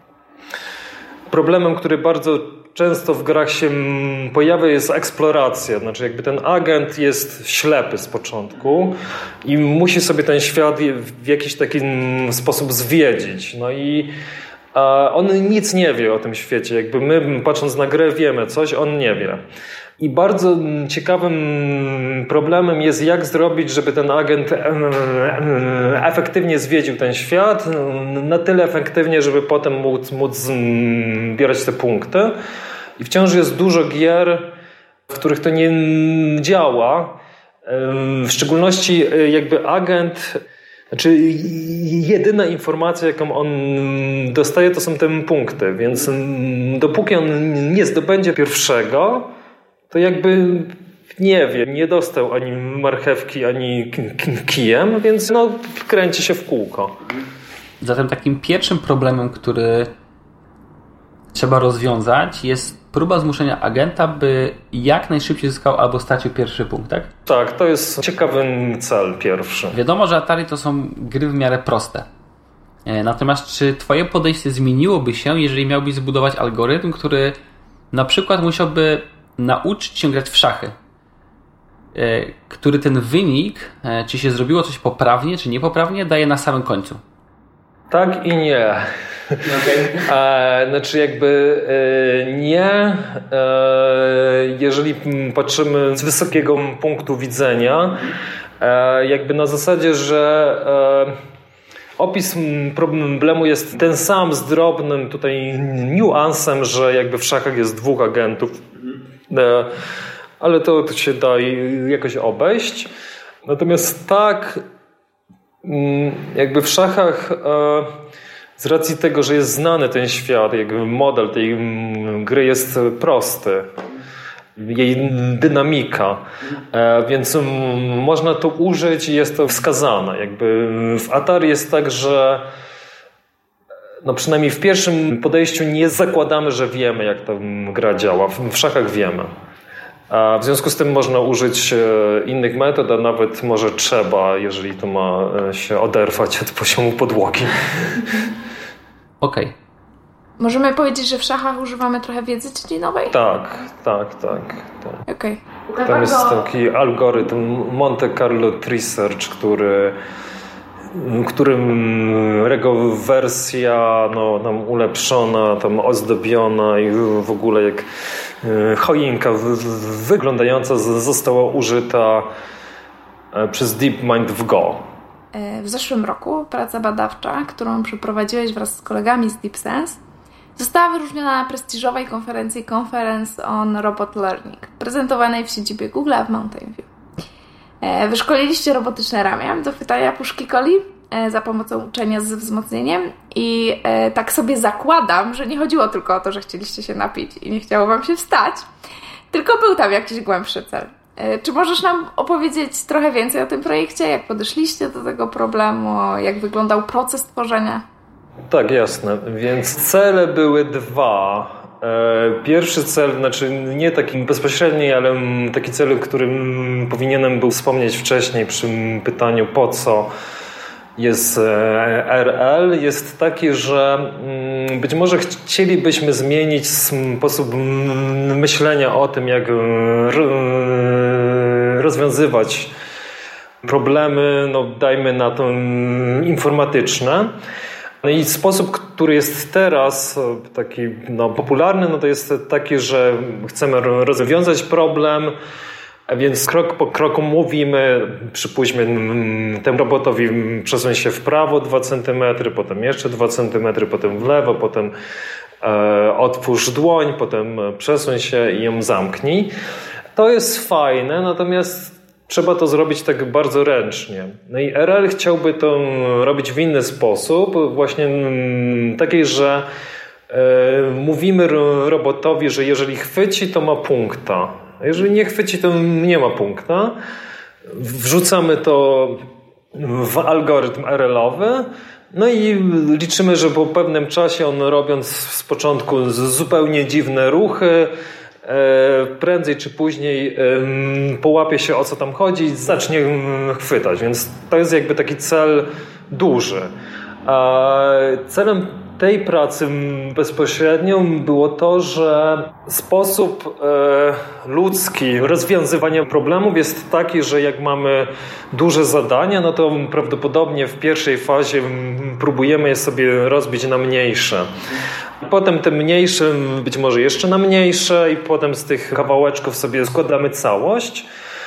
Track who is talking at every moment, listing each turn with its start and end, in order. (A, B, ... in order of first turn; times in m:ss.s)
0:01.3-0:14.1 A
0:14.7-0:19.4 A
0:20.0-0:32.3 A
0:33.0-0:34.5 A
0:35.1-0:40.4 A
0:40.9-0:49.3 A
0:49.9-0:57.0 A
0:57.8-0:59.9 B
1:01.3-1:07.1 B
1:07.3-1:09.8 A
1:09.7-1:12.1 B
1:12.8-1:17.4 B
1:17.9-1:20.7 B
1:21.9-1:27.0 B
1:27.9-1:41.2 A
1:29.5-1:30.0 B
1:42.0-1:48.6 A
1:49.3-1:49.7 A
1:50.4-1:52.9 A
1:53.4-1:54.6 A
1:55.6-1:58.0 A
1:58.6-2:03.7 A
2:04.6-2:12.5 A
2:14.0-2:19.3 A
2:20.1-2:28.3 A
2:29.2-2:29.5 B
2:30.4-2:33.1 C
2:33.1-2:35.0 A
2:35.0-2:36.4 C
2:35.8-2:40.0 A
2:40.9-2:47.9 A
2:48.4-2:52.3 A
2:53.3-2:54.8 A
2:55.3-3:00.0 C
3:00.6-3:06.9 C
3:07.8-3:18.6 C
3:19.3-3:27.8 C
3:28.5-3:40.1 A
3:41.0-3:52.7 A
3:53.6-3:57.3 A
3:58.0-4:05.3 A
4:06.1-4:14.9 A
4:15.6-4:19.5 A
4:20.1-4:29.6 A
4:30.3-4:37.0 A
4:37.7-4:39.2 A
4:39.7-4:47.9 A
4:48.4-4:56.7 A
4:57.2-5:14.5 A
5:15.2-5:21.1 A